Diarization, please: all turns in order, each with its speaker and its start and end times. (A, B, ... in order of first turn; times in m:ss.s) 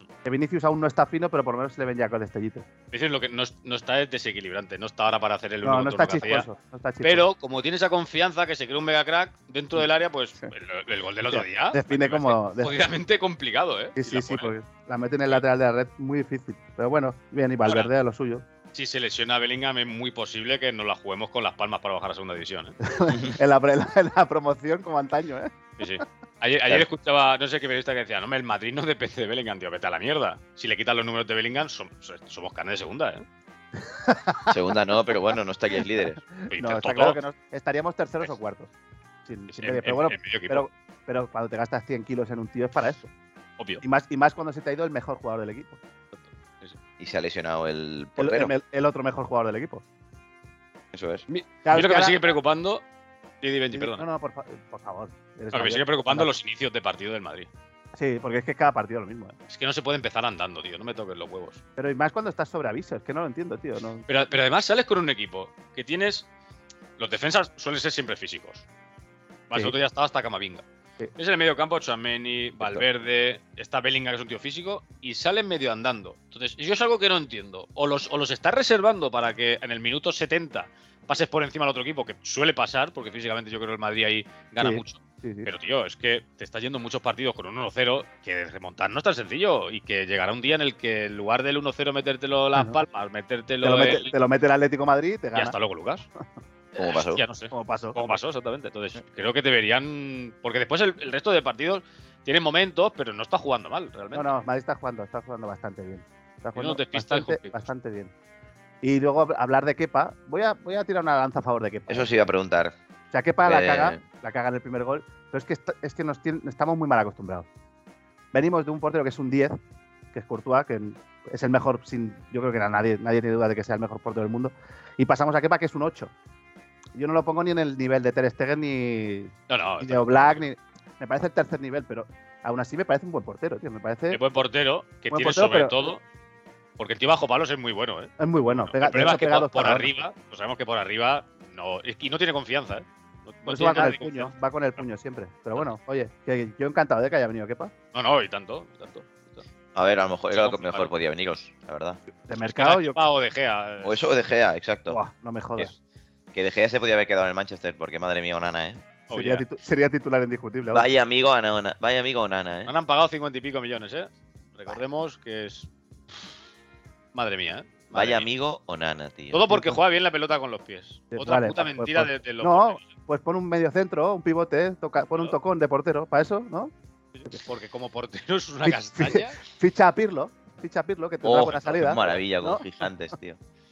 0:00.2-0:02.7 A
0:02.9-0:06.5 B
0:05.6-0:07.2 A
0:07.0-0:14.5 B
0:11.3-0:12.7 A
0:14.0-0:18.4 A
0:17.7-0:17.9 B
0:18.7-0:22.8 B
0:22.8-0:25.5 A
0:23.1-0:23.4 C
0:25.8-0:33.2 B
0:33.8-0:34.6 A
0:34.5-0:36.2 C
0:36.2-0:38.7 A
0:36.5-0:37.2 B
0:39.3-0:43.1 A
0:39.5-0:40.6 B
0:43.8-0:45.8 A
0:46.1-0:46.8 B
0:47.0-0:48.5 C
0:48.2-0:49.8 A
0:50.9-0:51.2 C
0:51.3-0:52.8 B
0:51.6-0:52.2 A
0:53.4-0:54.0 B
0:53.7-0:56.3 A
0:55.5-0:57.5 B
0:58.0-0:59.4 A
0:59.5-1:01.6 B
1:01.8-1:04.0 A
1:04.1-1:06.3 B
1:07.0-1:08.6 B
1:09.5-1:10.6 B
1:11.2-1:34.1 B
1:24.6-1:25.5 A
1:33.6-1:35.6 A
1:35.4-1:36.1 B
1:36.8-1:37.2 C
1:36.8-1:44.3 B
1:37.5-1:38.2 A
1:44.1-1:48.1 A
1:46.6-1:47.7 B
1:48.8-1:52.1 A
1:51.9-1:52.8 C
1:53.1-1:57.5 A
1:53.4-1:54.0 C
1:58.3-1:59.6 A
2:00.1-2:06.1 A
2:07.0-2:14.2 A
2:09.5-2:10.4 B
2:14.1-2:16.0 B
2:15.1-2:15.8 A
2:16.8-2:24.3 B
2:18.2-2:19.9 A
2:23.5-2:27.7 A
2:27.9-2:29.4 B
2:29.8-2:32.0 C
2:30.3-2:30.9 B
2:32.3-2:33.0 A
2:32.5-2:34.0 B
2:33.8-2:35.0 C
2:34.9-2:35.7 A
2:36.3-2:38.8 C
2:39.1-2:39.4 B
2:39.1-2:40.9 A
2:40.7-2:42.7 C
2:42.7-2:46.3 B
2:47.1-2:48.3 B
2:47.9-2:49.4 C
2:49.3-2:52.9 B
2:49.5-2:49.8 A
2:51.1-2:56.7 A
2:57.2-2:59.4 B
2:58.6-3:02.6 A
3:01.2-3:03.4 C